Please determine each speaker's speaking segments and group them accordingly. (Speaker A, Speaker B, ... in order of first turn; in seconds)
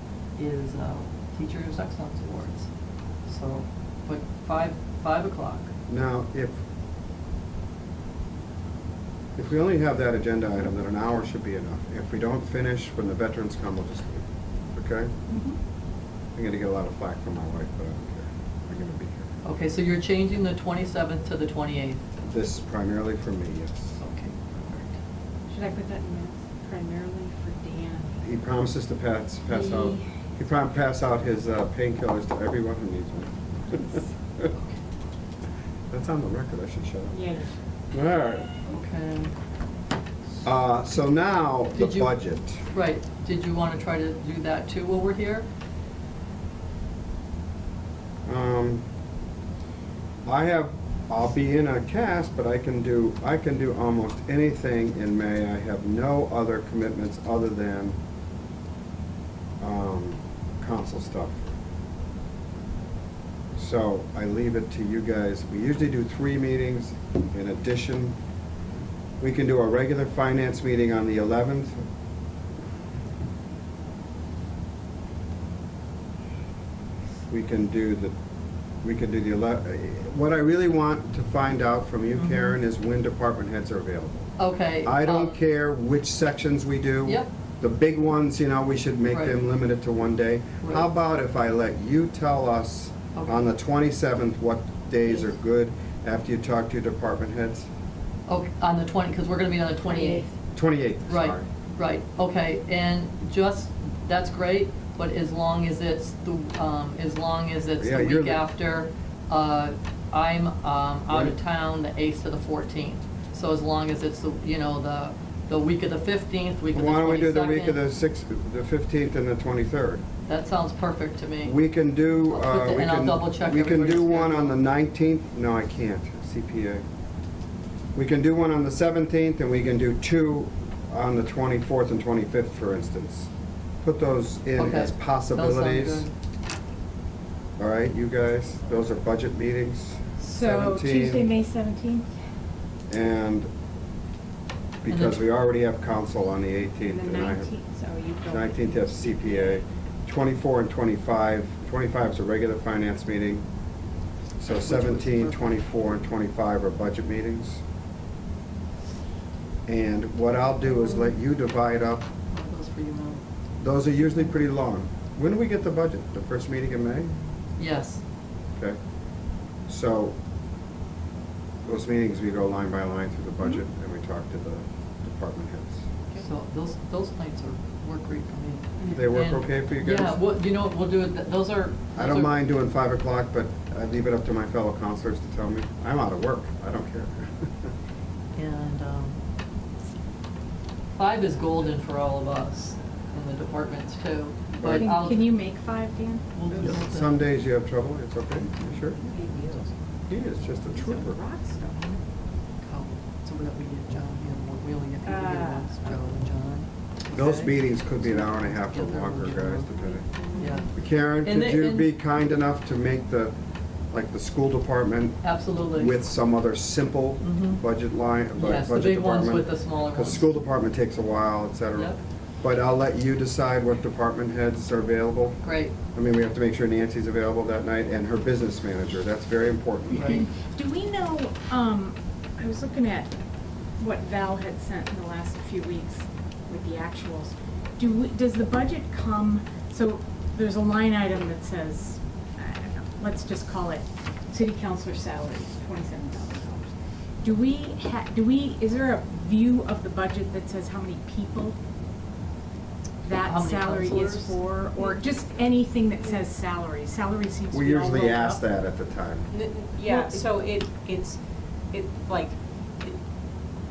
Speaker A: 0.4-2.7, 3.3-5.7, 19.4-22.0, 24.0-24.9, 38.7-39.3, 41.7-42.1, 42.7-45.5, 82.2-82.5, 84.4-85.4, 89.1-89.4, 93.2-93.4, 98.3-100.3, 101.1-117.8, 120.3-121.6, 122.3-124.6, 134.6-136.1, 144.9-145.2, 154.5-155.6, 162.3-163.2, 167.6-168.0, 176.2-182.4, 188.4-189.2, 191.0-195.4, 196.3-197.2, 199.0-199.7, 202.6-209.7, 210.3-210.7, 211.2-211.9, 215.2-215.9, 217.2-217.6, 218.4-220.3, 225.4-225.8, 229.9-230.3, 253.2-254.4
Speaker B: 5.9-6.6, 9.4-15.1, 16.4-19.3, 22.2-24.0, 28.2-34.5, 35.9-37.3, 37.9-38.5, 40.4-42.6, 48.3-48.8, 50.3-58.0, 59.6-61.5, 63.5-68.2, 69.2-71.8, 77.3-78.1, 78.8-84.3, 84.8-97.7, 100.5-101.5, 107.8-108.5, 111.1-111.4, 116.7-120.0, 121.4-126.8, 128.0-133.3, 133.8-136.1, 137.6-141.3, 142.9-143.5, 144.8-147.5, 148.3-153.4, 154.4-157.6, 159.7-162.1, 163.6-167.1, 169.7-170.2, 171.7-175.9, 178.9-180.2, 181.9-187.7, 194.6-195.1, 196.5-199.0, 200.1-201.2, 207.1-210.1, 210.7-213.3, 213.9-230.3, 257.5-259.3
Speaker C: 15.3-15.6, 25.5-28.2, 29.5-30.1, 37.1-37.5, 99.9-100.3, 140.2-142.1, 146.8-149.6, 194.6-196.3, 200.8-202.0, 205.1-205.7, 210.3-210.7, 230.1-233.1, 233.8-251.6, 253.0-258.4, 259.9-260.3
Speaker D: 259.3-261.2, 261.7-263.0